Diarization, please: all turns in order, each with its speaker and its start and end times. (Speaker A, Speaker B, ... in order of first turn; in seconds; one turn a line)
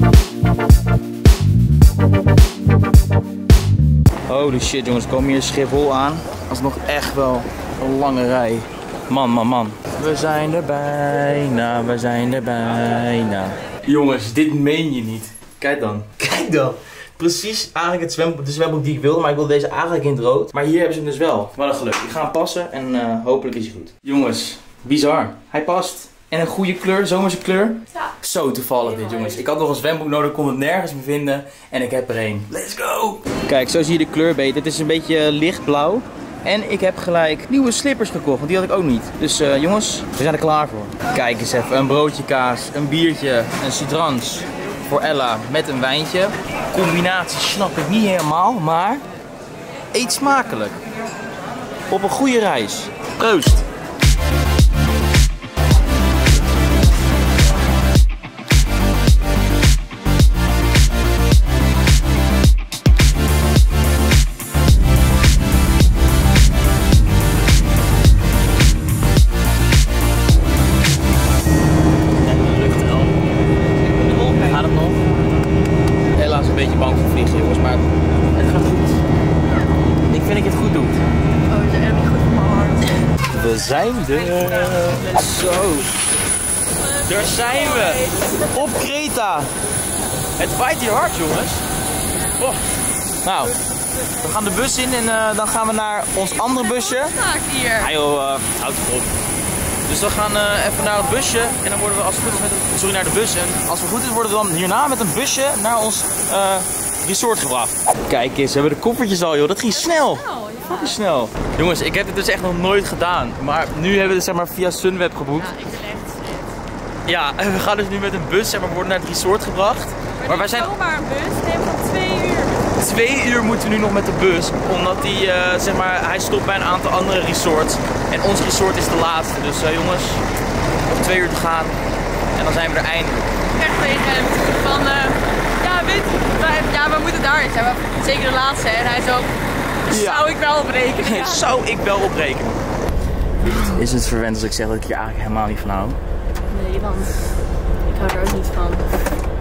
Speaker A: 4.3-49.0
Speaker B: 28.8-29.4
Speaker A: 49.9-50.8
Speaker A: 51.9-53.6
Speaker A: 72.2-73.2
Speaker A: 74.0-75.0
Speaker A: 76.1-79.0
Speaker A: 80.1-81.0
Speaker B: 81.5-83.1
Speaker A: 83.3-85.9
Speaker B: 86.8-88.6
Speaker A: 87.0-89.5
Speaker A: 90.4-91.6
Speaker A: 93.2-93.5
Speaker A: 94.2-97.2
Speaker B: 96.2-97.9
Speaker A: 97.8-99.1
Speaker A: 99.9-115.5
Speaker B: 109.7-111.0
Speaker B: 115.4-116.5
Speaker A: 117.0-120.7
Speaker B: 120.2-122.7
Speaker A: 122.8-130.2
Speaker B: 124.7-125.0
Speaker A: 130.9-131.8
Speaker A: 132.3-133.3
Speaker B: 133.5-139.3
Speaker B: 139.9-141.5
Speaker A: 139.9-140.3
Speaker A: 141.0-142.6
Speaker A: 143.4-146.0
Speaker B: 146.5-147.2
Speaker B: 147.9-148.8